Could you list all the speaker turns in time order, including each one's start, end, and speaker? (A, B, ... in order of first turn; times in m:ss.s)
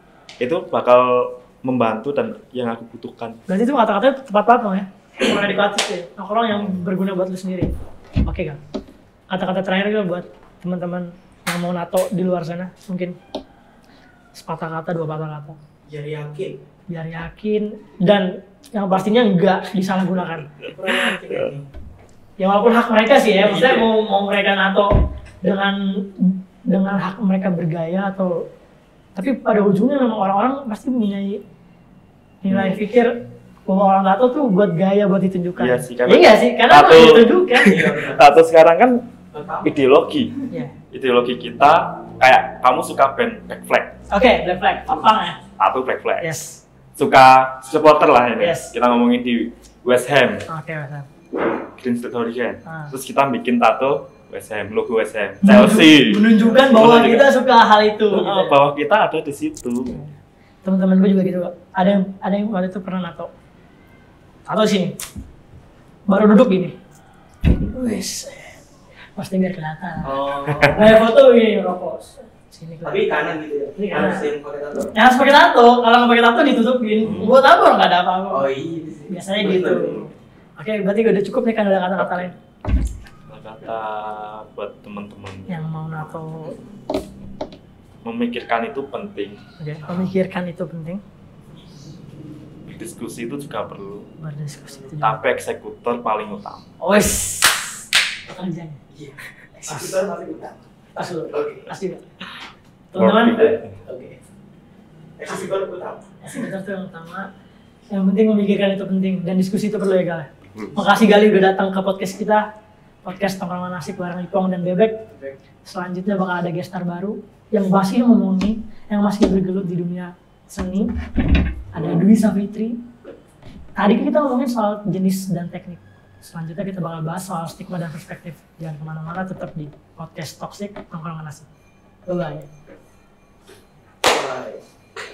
0:00.4-0:03.4 A
0:03.5-0:07.7 B
0:06.5-0:06.8 A
0:08.2-0:08.6 B
0:09.3-0:13.1 B
0:14.3-0:15.6 B
0:15.9-0:16.6 C
0:16.9-0:20.5 B
0:20.6-0:21.7 C
0:22.4-0:24.9 B
0:23.4-0:23.9 C
0:25.4-0:28.3 B
0:29.2-0:31.4 B
0:32.4-0:33.1 B
0:32.5-0:32.8 A
0:33.7-0:37.9 B
0:35.6-0:39.0 A
0:37.6-0:38.2 C
0:39.3-0:39.7 C
0:39.6-0:40.3 A
0:40.9-0:44.0 A
0:44.1-0:45.4 B
0:45.6-0:46.3 A
0:46.2-0:46.6 B
0:47.0-0:50.5 A
0:48.4-0:48.7 B
0:50.5-0:51.1 B
0:51.6-0:57.3 A
0:52.6-0:52.9 B
0:55.4-0:58.5 B
0:58.1-1:00.0 A
1:00.6-1:03.3 B
1:04.4-1:04.9 B
1:06.1-1:06.7 B
1:07.6-1:08.6 B
1:09.2-1:10.2 B
1:10.0-1:11.0 C
1:10.5-1:10.8 A
1:10.7-1:14.3 B
1:12.8-1:14.9 C
1:14.9-1:18.5 B
1:17.0-1:17.3 A
1:18.3-1:20.0 C
1:19.1-1:22.3 B
1:22.0-1:22.4 A
1:23.3-1:26.0 A
1:25.5-1:26.6 B
1:28.0-1:29.4 A
1:29.6-1:31.0 B
1:32.7-1:34.1 A
1:34.2-1:35.2 B
1:35.0-1:36.7 A
1:36.8-1:38.8 B
1:38.9-1:40.6 C
1:39.7-1:39.9 B
1:41.0-1:42.0 B
1:41.3-1:41.7 C
1:42.9-1:43.4 B
1:43.0-1:43.8 A
1:43.3-1:44.2 C
1:45.2-1:46.1 C
1:46.2-1:47.3 B
1:47.9-1:52.4 B
1:53.0-1:54.9 B
1:55.1-1:55.4 C
1:55.6-2:00.9 B
2:01.7-2:02.8 B
2:01.8-2:02.0 C
2:03.8-2:11.5 B
2:12.1-2:12.5 B
2:14.0-2:14.6 C